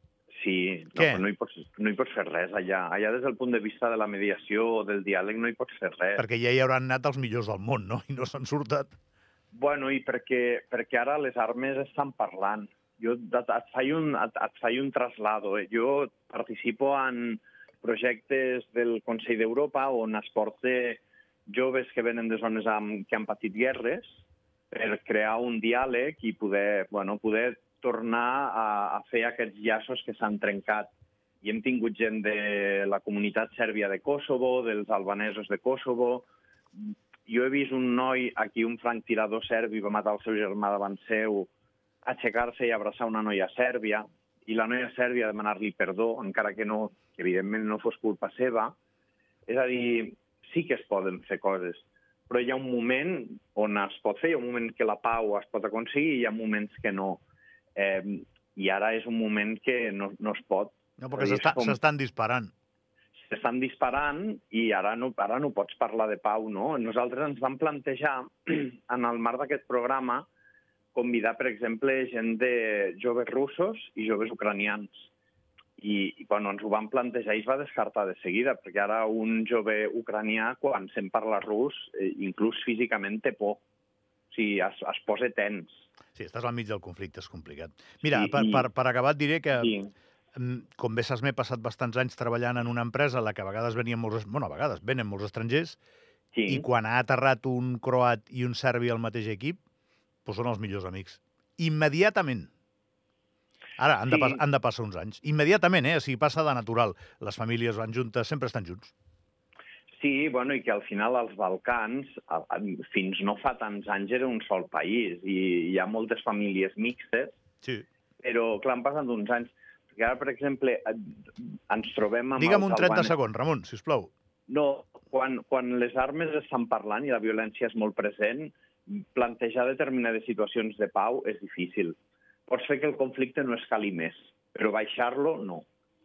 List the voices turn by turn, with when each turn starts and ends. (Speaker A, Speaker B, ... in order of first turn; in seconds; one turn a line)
Speaker A: 0.3-6.2
Speaker B: 1.0-1.2
Speaker B: 6.2-8.9
Speaker A: 9.5-24.2
Speaker A: 24.7-30.9
Speaker A: 31.4-36.3
Speaker A: 36.9-41.5
Speaker A: 42.0-48.8
Speaker A: 49.5-57.2
Speaker A: 57.8-61.8
Speaker B: 61.0-62.5
Speaker A: 63.3-70.3
Speaker A: 70.9-75.1
Speaker A: 75.8-83.6
Speaker A: 84.3-85.8
Speaker B: 86.2-89.8
Speaker A: 88.1-88.7
Speaker A: 89.6-89.9
Speaker B: 90.3-95.8
Speaker A: 96.3-96.7
Speaker B: 96.5-99.6
Speaker B: 100.2-102.5
Speaker B: 103.8-108.9
Speaker A: 104.1-104.4
Speaker A: 110.0-117.4
Speaker A: 118.2-123.1
Speaker B: 122.4-124.1
Speaker A: 124.5-132.0
Speaker A: 132.5-135.7